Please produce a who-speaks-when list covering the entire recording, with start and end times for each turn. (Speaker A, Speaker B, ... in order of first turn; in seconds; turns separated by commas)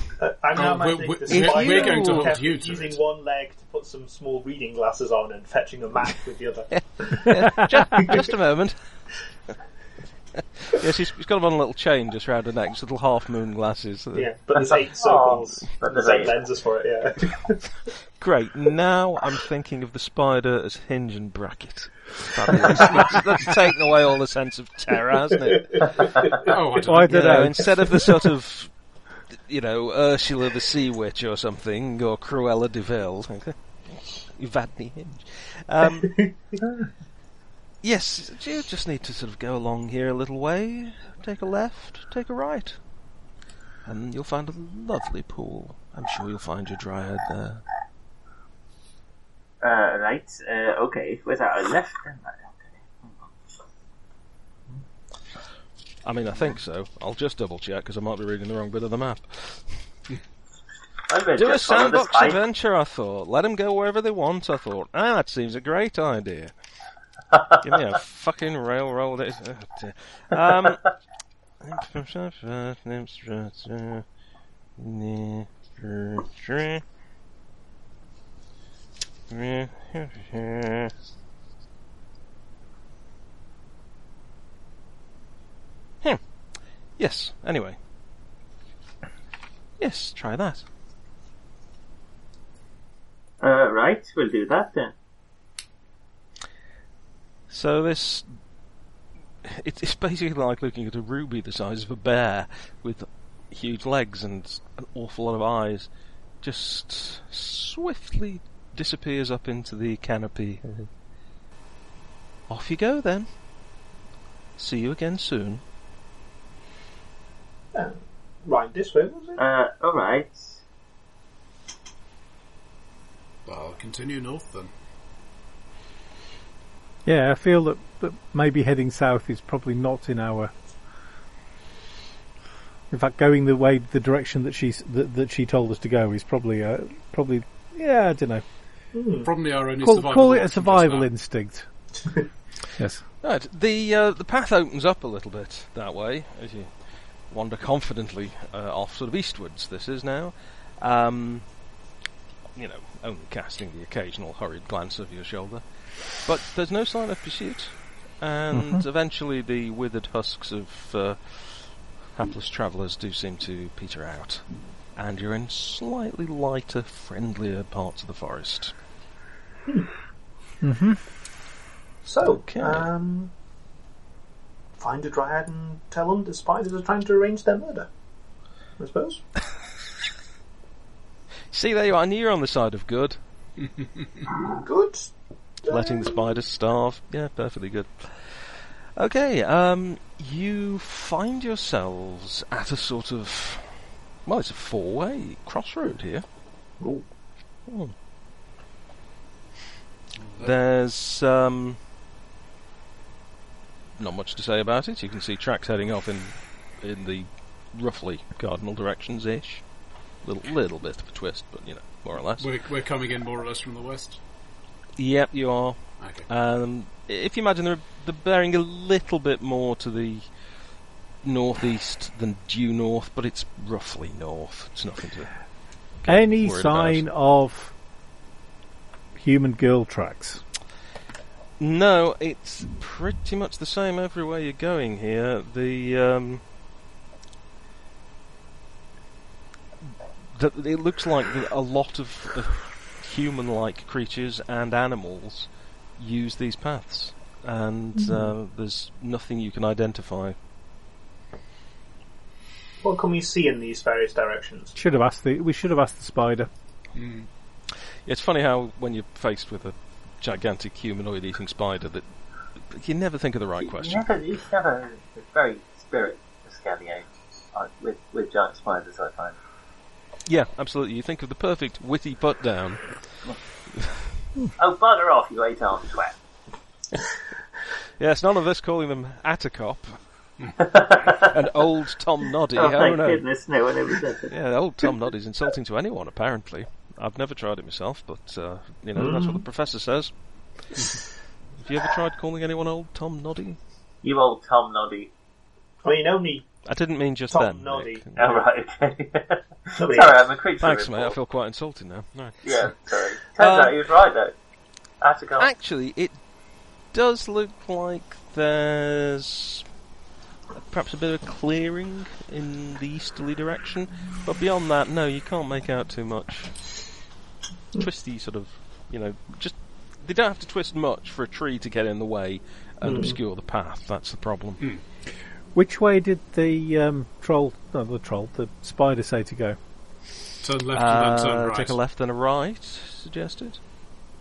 Speaker A: 0.2-8.3, Speaker B: 0.5-3.0, Speaker C: 1.3-2.3, Speaker C: 6.7-8.8, Speaker C: 10.6-14.3, Speaker A: 14.1-17.7, Speaker D: 15.0-16.3, Speaker C: 18.2-26.1, Speaker B: 22.7-23.2, Speaker A: 25.8-26.5, Speaker B: 26.4-27.5, Speaker E: 26.8-27.9, Speaker C: 26.9-28.7, Speaker C: 29.3-33.5, Speaker C: 34.3-36.2, Speaker A: 36.0-36.6, Speaker C: 37.8-42.8, Speaker C: 43.9-47.6, Speaker D: 49.6-53.3, Speaker C: 56.0-59.8, Speaker D: 61.1-62.4, Speaker C: 61.4-66.5, Speaker C: 67.6-70.8, Speaker C: 71.6-74.0, Speaker C: 74.8-76.8, Speaker C: 79.3-80.9, Speaker C: 87.0-87.8, Speaker C: 89.8-90.6, Speaker D: 93.4-94.9, Speaker C: 97.5-98.3, Speaker C: 99.4-105.9, Speaker C: 106.4-110.6, Speaker C: 112.5-113.3, Speaker C: 114.6-115.6, Speaker A: 117.7-119.4, Speaker D: 119.4-120.6, Speaker B: 123.5-124.7, Speaker E: 127.0-130.5, Speaker E: 132.9-138.4, Speaker A: 138.9-139.3, Speaker B: 139.2-141.1, Speaker E: 139.8-141.7, Speaker E: 142.8-143.0, Speaker C: 143.2-146.7, Speaker C: 147.3-151.4, Speaker C: 152.5-155.6, Speaker C: 156.2-164.4, Speaker E: 158.5-158.8, Speaker C: 164.9-168.7, Speaker E: 170.6-171.0, Speaker A: 172.0-173.3, Speaker C: 172.2-172.9, Speaker A: 174.8-177.9, Speaker A: 178.8-179.2, Speaker C: 181.5-183.2, Speaker A: 184.6-185.1, Speaker A: 185.7-186.1, Speaker C: 185.7-196.2, Speaker A: 196.8-197.0, Speaker C: 197.7-197.9, Speaker B: 200.2-200.5, Speaker C: 200.4-201.8, Speaker C: 204.0-209.6, Speaker C: 210.2-212.5, Speaker B: 212.4-214.2, Speaker C: 215.0-220.3, Speaker B: 216.0-216.3, Speaker C: 221.2-225.3, Speaker C: 226.0-227.0, Speaker E: 226.1-227.7, Speaker E: 229.1-230.4, Speaker C: 231.6-236.4, Speaker C: 240.3-250.3, Speaker A: 252.8-254.7, Speaker E: 254.8-256.5, Speaker B: 256.9-257.3, Speaker C: 258.1-264.1, Speaker D: 263.6-269.4, Speaker C: 270.2-273.1, Speaker D: 274.6-276.1, Speaker C: 278.0-280.0, Speaker D: 280.6-281.3, Speaker C: 281.2-283.2, Speaker D: 282.5-284.3, Speaker C: 284.3-290.1, Speaker A: 288.9-289.4, Speaker C: 291.6-293.6, Speaker D: 294.0-295.1, Speaker A: 295.8-296.5, Speaker C: 296.6-298.3, Speaker A: 297.3-298.4, Speaker D: 298.1-301.2, Speaker A: 299.8-300.2, Speaker C: 300.6-302.1, Speaker D: 302.4-304.3, Speaker C: 303.4-303.8, Speaker D: 305.0-305.5, Speaker C: 305.4-306.2, Speaker C: 306.9-309.6, Speaker C: 310.5-316.5, Speaker C: 317.8-324.6, Speaker A: 322.8-323.2, Speaker E: 325.5-329.6, Speaker B: 330.4-331.8, Speaker C: 330.7-333.6